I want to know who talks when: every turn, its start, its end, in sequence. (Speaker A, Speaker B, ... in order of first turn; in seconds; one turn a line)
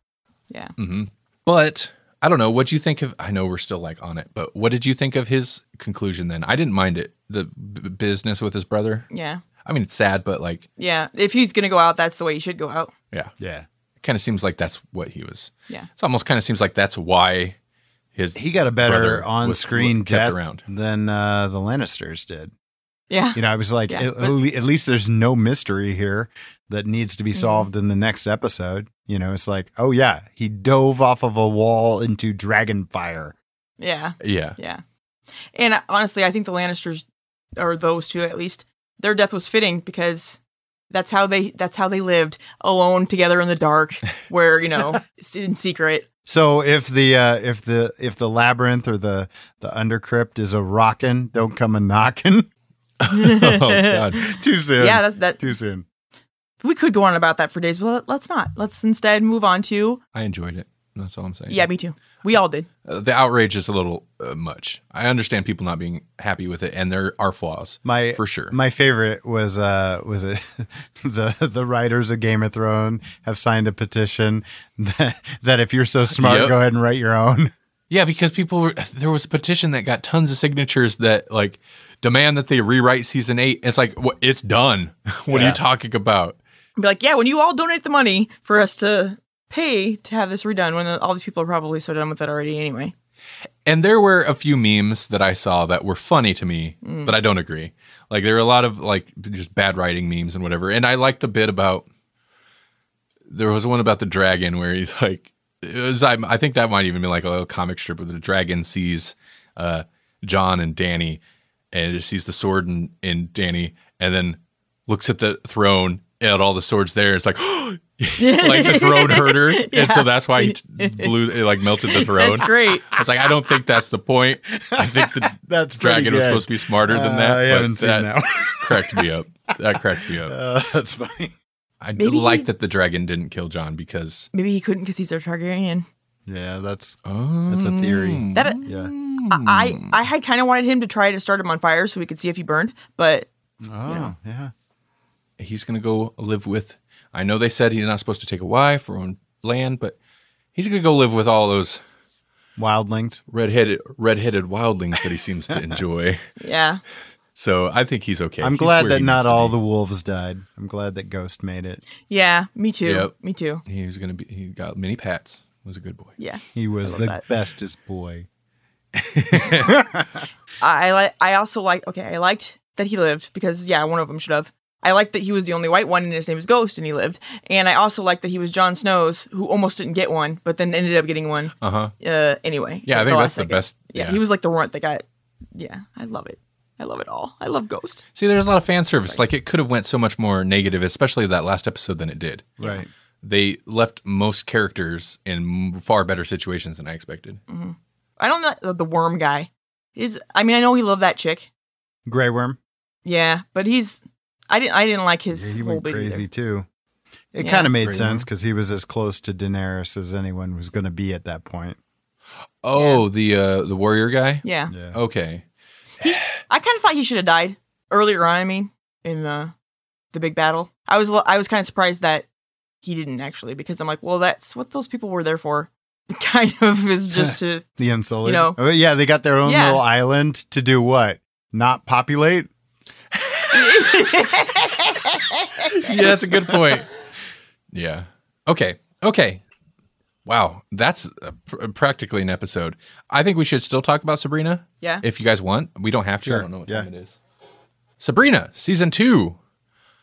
Speaker A: 0.8-9.1
Speaker B: 9.1-9.4
Speaker A: 9.6-10.7
Speaker B: 10.8-12.9
Speaker C: 13.4-13.7
Speaker A: 14.0-17.6
Speaker A: 18.1-20.6
Speaker C: 18.4-22.5
Speaker B: 23.1-24.4
Speaker C: 23.4-33.4
Speaker B: 27.3-27.7
Speaker B: 33.8-34.8
Speaker A: 34.2-34.6
Speaker B: 35.5-37.1
Speaker B: 37.6-40.4
Speaker B: 40.9-46.0
Speaker C: 46.3-52.5
Speaker A: 53.0-54.2
Speaker B: 53.1-55.5
Speaker C: 54.1-55.9
Speaker B: 56.6-60.0
Speaker A: 60.1-61.7
Speaker B: 61.5-62.7
Speaker A: 62.9-68.5
Speaker C: 67.8-77.5
Speaker A: 76.1-76.6
Speaker A: 77.9-86.4
Speaker C: 85.3-85.6
Speaker B: 86.8-92.9
Speaker A: 93.7-101.9
Speaker B: 96.8-97.2
Speaker A: 103.3-111.2
Speaker A: 111.7-130.3
Speaker B: 118.2-121.1
Speaker B: 121.8-122.9
Speaker C: 124.7-129.1
Speaker C: 130.0-131.3
Speaker A: 131.8-134.3
Speaker B: 132.0-132.5
Speaker B: 134.3-135.9
Speaker C: 136.3-137.0
Speaker A: 137.1-139.9
Speaker C: 137.5-138.9
Speaker B: 138.3-138.6
Speaker B: 139.3-143.3
Speaker C: 143.6-144.5
Speaker A: 145.4-150.0
Speaker A: 150.6-151.8
Speaker C: 152.6-153.2
Speaker A: 153.3-156.2
Speaker B: 156.4-156.8
Speaker A: 157.3-159.6
Speaker C: 158.4-161.8
Speaker B: 162.1-163.6
Speaker A: 162.8-163.1
Speaker A: 163.7-166.2
Speaker B: 166.2-167.2
Speaker C: 166.6-168.3
Speaker A: 169.0-169.8
Speaker C: 169.4-170.2
Speaker B: 170.6-185.0
Speaker A: 181.6-181.9
Speaker A: 182.9-184.2
Speaker B: 185.6-188.0
Speaker A: 188.2-192.6
Speaker C: 192.6-192.9
Speaker A: 193.2-197.4
Speaker B: 197.5-201.5
Speaker C: 202.1-202.6
Speaker B: 203.1-206.3
Speaker C: 205.3-206.7
Speaker C: 207.3-211.8
Speaker B: 207.4-207.7
Speaker A: 207.8-208.3
Speaker A: 212.6-215.4
Speaker B: 212.8-213.0
Speaker B: 214.4-214.7
Speaker C: 214.7-215.0
Speaker B: 216.0-219.5
Speaker B: 220.1-222.3
Speaker B: 222.8-227.6
Speaker C: 227.1-232.5
Speaker B: 228.2-228.6
Speaker B: 229.4-229.8
Speaker A: 233.1-234.0
Speaker B: 233.5-235.9
Speaker A: 235.7-236.9
Speaker A: 237.7-239.4
Speaker A: 240.3-247.2
Speaker C: 246.2-246.9
Speaker A: 248.0-249.4